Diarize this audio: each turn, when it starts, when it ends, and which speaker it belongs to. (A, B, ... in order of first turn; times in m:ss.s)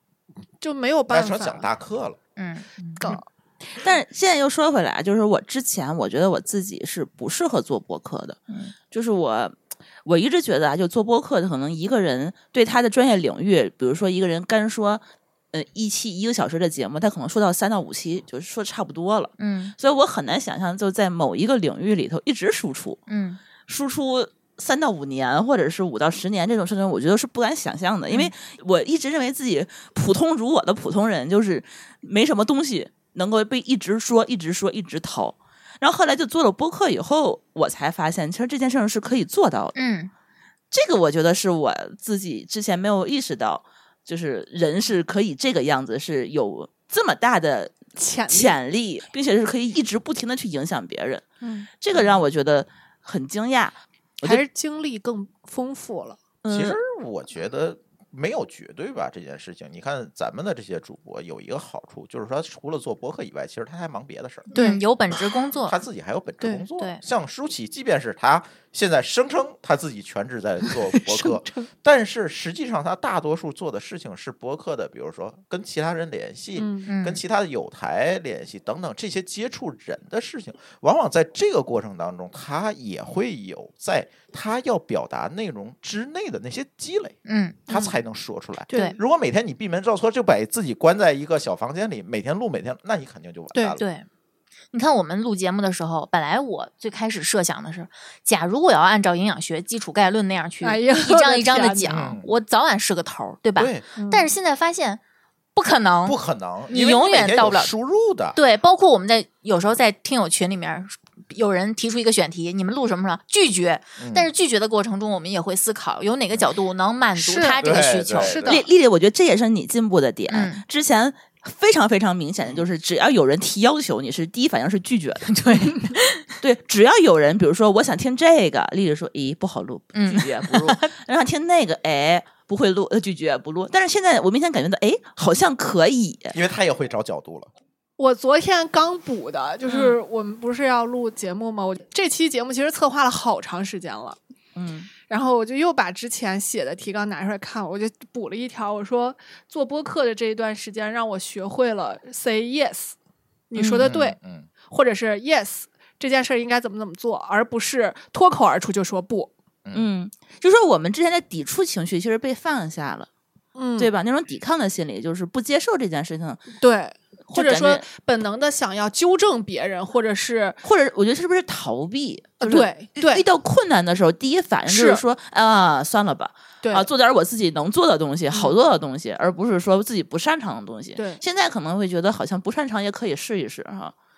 0:00.6-0:01.7 A
0:01.1-0:02.2 B
0:02.4-0:03.2 C
0:03.0-0:03.2 A
0:03.8-0:08.4 D
0:08.9-0:23.0 D
0:19.4-0:19.8 C
0:23.1-0:23.4 C
0:23.7-0:39.8 D
0:39.8-0:40.1 C
0:40.7-0:51.3 D
0:48.0-0:48.6 A
0:51.4-0:51.7 A
0:51.8-0:54.4 D
0:54.2-0:56.2 A
0:56.4-0:56.8 D
0:56.5-1:04.5 B
1:04.5-1:05.8 C
1:04.5-1:04.8 A
1:05.6-1:33.8 B
1:06.4-1:06.7 A
1:10.7-1:11.7 A
1:16.6-1:16.9 A
1:16.9-1:17.2 C
1:27.2-1:27.7 C
1:28.7-1:29.0 A
1:33.5-1:33.8 A
1:33.8-1:34.1 C
1:34.7-1:45.0 C
1:40.6-1:41.9 A
1:41.9-1:42.3 B
1:43.6-1:43.9 B
1:44.0-1:44.3 A
1:45.6-1:47.7 C
1:46.0-1:48.4 B
1:48.4-1:58.6 C
1:54.0-1:54.3 B
1:57.2-1:58.6 B
1:58.4-2:05.4 D
2:00.3-2:00.6 C
2:05.3-2:06.3 C
2:06.4-2:16.4 D
2:10.0-2:10.9 C
2:16.3-2:17.5 B
2:18.0-2:24.2 A
2:19.7-2:20.0 D
2:24.6-2:24.9 D
2:25.1-2:33.0 A
2:33.5-2:39.3 A
2:33.6-2:33.9 D
2:33.8-2:34.5 B
2:39.7-2:43.1 D
2:43.6-2:43.9 A
2:43.8-2:46.5 D
2:46.6-2:50.6 A
2:47.3-2:47.9 D
2:50.6-3:03.9 D
2:52.4-2:53.2 A
2:54.7-2:55.0 A
2:56.6-2:56.9 A
2:58.3-2:58.6 A
3:01.0-3:01.2 A